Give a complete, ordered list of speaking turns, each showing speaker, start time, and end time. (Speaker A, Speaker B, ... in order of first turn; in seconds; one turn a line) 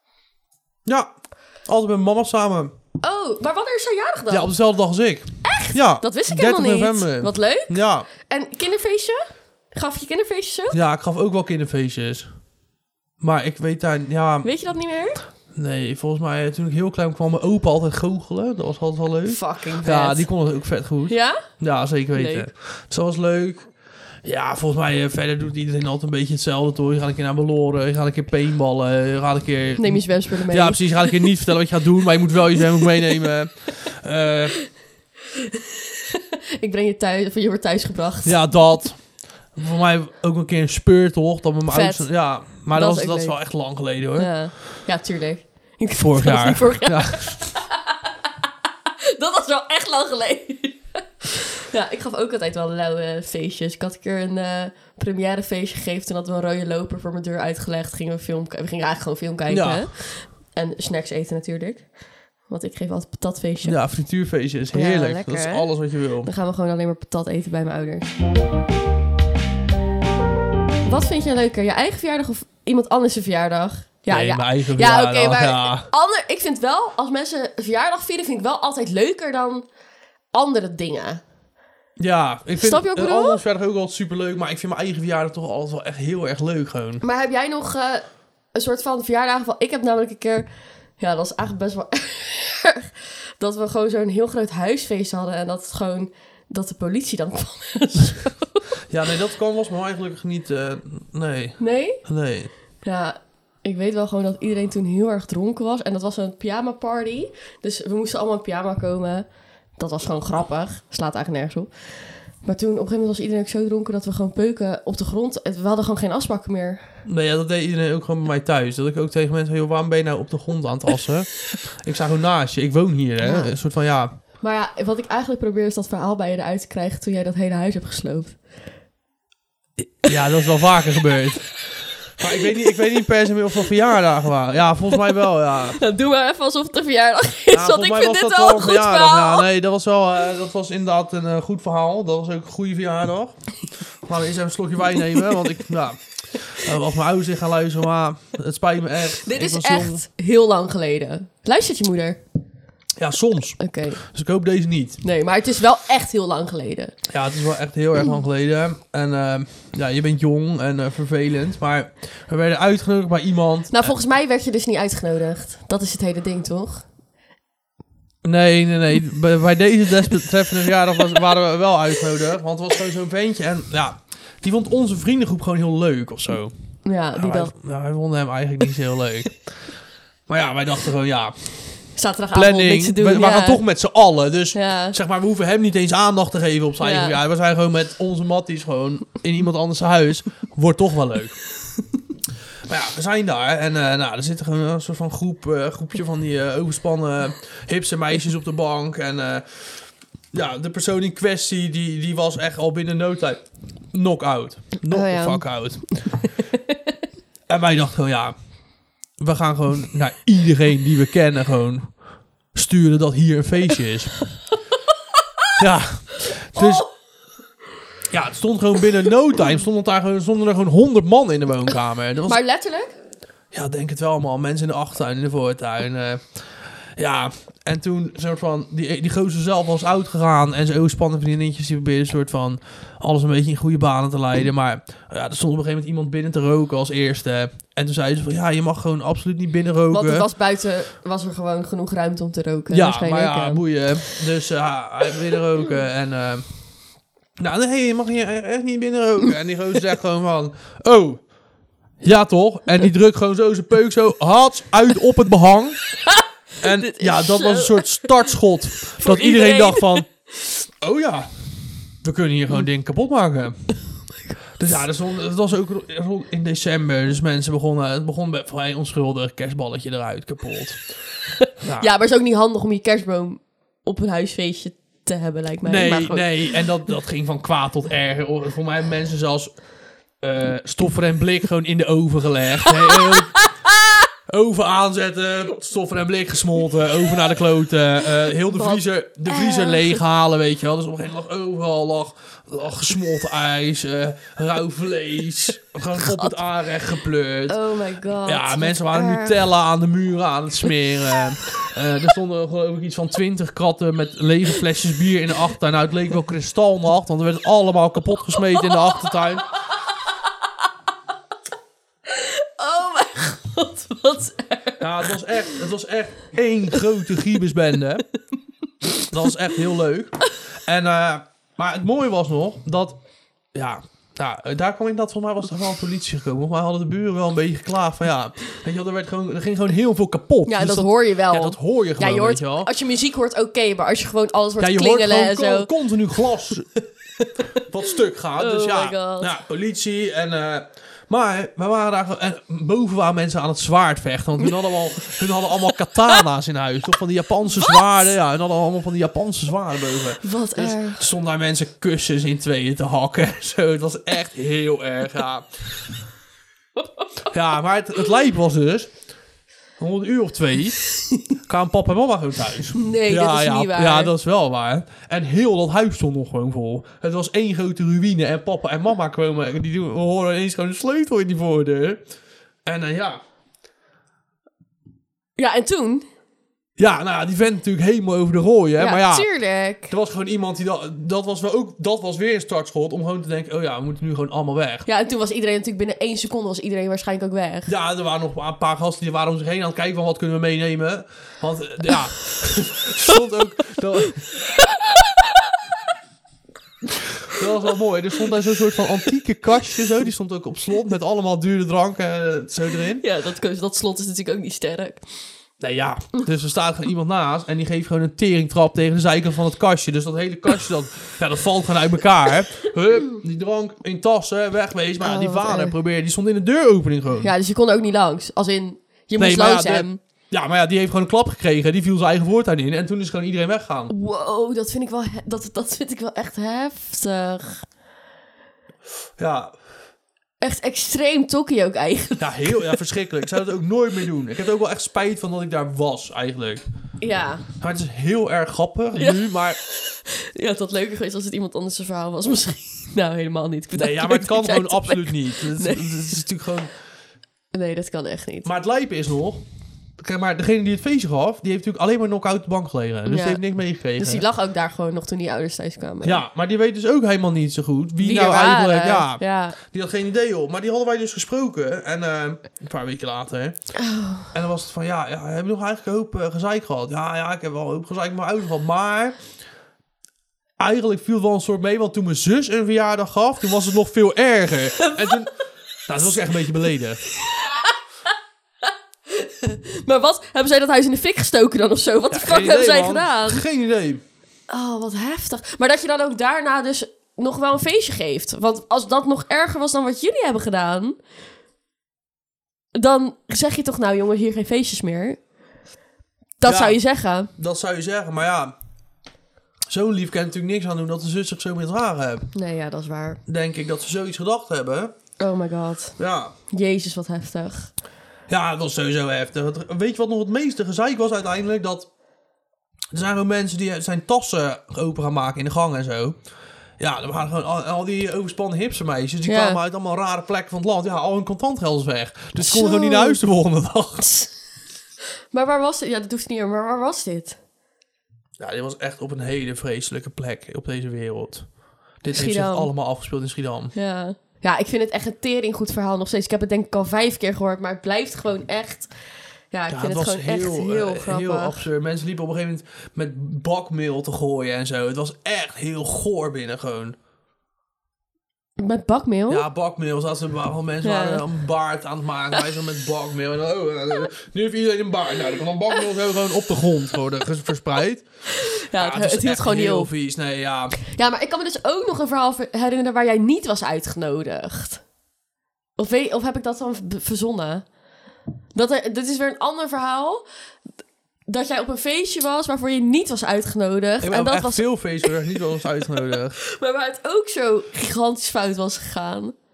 Speaker A: 0.8-2.7
Speaker B: 3.0-4.5
Speaker A: 4.3-8.1
Speaker B: 5.4-10.8
Speaker A: 10.7-12.3
Speaker A: 13.2-14.5
Speaker B: 14.4-15.2
Speaker A: 15.5-34.6
Speaker B: 19.2-20.3
Speaker B: 21.1-21.5
Speaker B: 22.1-22.5
Speaker B: 29.8-31.2
Speaker B: 36.1-38.4
Speaker A: 38.2-44.5
Speaker B: 41.7-47.9
Speaker A: 45.9-47.4
Speaker B: 49.0-63.8
Speaker A: 59.5-59.9
Speaker A: 63.6-66.3
Speaker B: 64.7-68.1
Speaker B: 70.8-79.7
Speaker A: 74.1-75.9
Speaker B: 80.3-81.2
Speaker A: 82.0-87.0
Speaker B: 82.6-83.4
Speaker B: 87.0-90.5
Speaker B: 91.0-98.6
Speaker A: 98.9-102.5
Speaker B: 101.6-102.0
Speaker B: 102.8-109.2
Speaker B: 109.8-116.8
Speaker A: 117.0-124.1
Speaker B: 123.2-123.5
Speaker B: 124.4-128.4
Speaker A: 130.0-135.8
Speaker B: 135.8-139.4
Speaker A: 137.5-150.0
Speaker B: 149.2-152.2
Speaker A: 153.0-155.0
Speaker B: 153.6-154.0
Speaker B: 155.0-156.9
Speaker A: 157.1-163.9
Speaker B: 163.7-166.8
Speaker A: 168.2-176.5
Speaker B: 176.8-177.5
Speaker A: 177.1-179.8
Speaker A: 180.3-191.4
Speaker B: 181.9-183.6
Speaker B: 184.5-184.9
Speaker B: 186.8-187.2
Speaker A: 192.7-206.2
Speaker B: 204.8-206.5
Speaker A: 207.5-208.3
Speaker A: 209.2-212.0
Speaker A: 212.5-214.2
Speaker A: 215.6-216.8
Speaker B: 216.5-216.8
Speaker A: 218.1-222.4
Speaker B: 222.3-222.9
Speaker A: 223.5-240.3
Speaker B: 239.9-244.2
Speaker A: 242.7-246.5
Speaker A: 247.4-251.2
Speaker A: 252.0-256.0
Speaker A: 256.6-260.1
Speaker B: 256.8-258.1
Speaker B: 259.0-260.0
Speaker A: 260.8-263.7
Speaker A: 264.6-271.0
Speaker A: 271.6-271.9
Speaker B: 271.8-276.6
Speaker A: 275.6-279.6
Speaker A: 280.2-283.5
Speaker B: 283.0-283.4
Speaker A: 284.3-297.6
Speaker B: 288.5-290.0
Speaker B: 296.0-296.4
Speaker B: 297.5-299.4
Speaker A: 298.2-309.5
Speaker B: 312.1-315.5
Speaker A: 314.8-318.1
Speaker A: 319.0-323.0
Speaker A: 323.5-332.7
Speaker B: 330.5-335.7
Speaker A: 334.6-336.8
Speaker A: 337.6-355.9
Speaker B: 338.4-339.3
Speaker B: 350.2-351.0
Speaker A: 357.3-359.0
Speaker A: 359.8-372.0
Speaker B: 362.8-364.1
Speaker A: 372.6-373.2
Speaker B: 375.4-376.0
Speaker A: 376.8-384.9
Speaker B: 378.8-379.9
Speaker B: 384.9-387.7
Speaker A: 387.7-394.4
Speaker A: 397.2-403.0
Speaker B: 403.0-405.0
Speaker A: 405.6-417.3
Speaker B: 415.0-415.7
Speaker B: 417.2-420.0
Speaker A: 419.2-423.9
Speaker B: 423.9-427.7
Speaker A: 429.2-429.5
Speaker B: 430.4-432.8
Speaker A: 432.2-436.6
Speaker B: 437.0-437.4
Speaker A: 437.6-439.6
Speaker B: 438.9-446.2
Speaker A: 443.7-446.7
Speaker B: 447.5-448.5
Speaker A: 448.4-449.4
Speaker A: 450.0-454.2
Speaker B: 453.1-453.4
Speaker B: 453.9-456.2
Speaker A: 456.0-463.7
Speaker B: 458.0-459.6
Speaker B: 463.8-464.3
Speaker A: 464.3-469.2
Speaker A: 470.6-477.0
Speaker B: 477.2-477.7
Speaker B: 479.1-483.4
Speaker A: 482.1-484.0
Speaker B: 484.5-490.9
Speaker B: 492.7-495.2
Speaker B: 496.4-497.3
Speaker A: 496.4-498.5
Speaker A: 499.7-502.3
Speaker B: 502.3-503.2
Speaker A: 503.3-504.9
Speaker B: 505.2-506.0
Speaker A: 506.0-506.3
Speaker B: 506.5-507.7
Speaker A: 508.3-511.9
Speaker A: 512.9-516.2
Speaker A: 516.8-524.1
Speaker B: 519.2-519.6
Speaker B: 522.4-523.2
Speaker B: 524.0-524.3
Speaker B: 525.3-527.4
Speaker A: 528.4-533.7
Speaker B: 532.1-532.7
Speaker B: 533.7-538.9
Speaker B: 539.5-541.6
Speaker A: 539.7-547.0
Speaker B: 548.6-549.4
Speaker A: 549.3-558.0
Speaker B: 550.8-551.2
Speaker B: 558.4-559.9
Speaker A: 558.6-560.8
Speaker B: 560.9-564.8
Speaker B: 565.8-567.7
Speaker B: 568.5-570.2
Speaker B: 571.3-575.4
Speaker A: 574.0-576.4
Speaker B: 576.4-579.3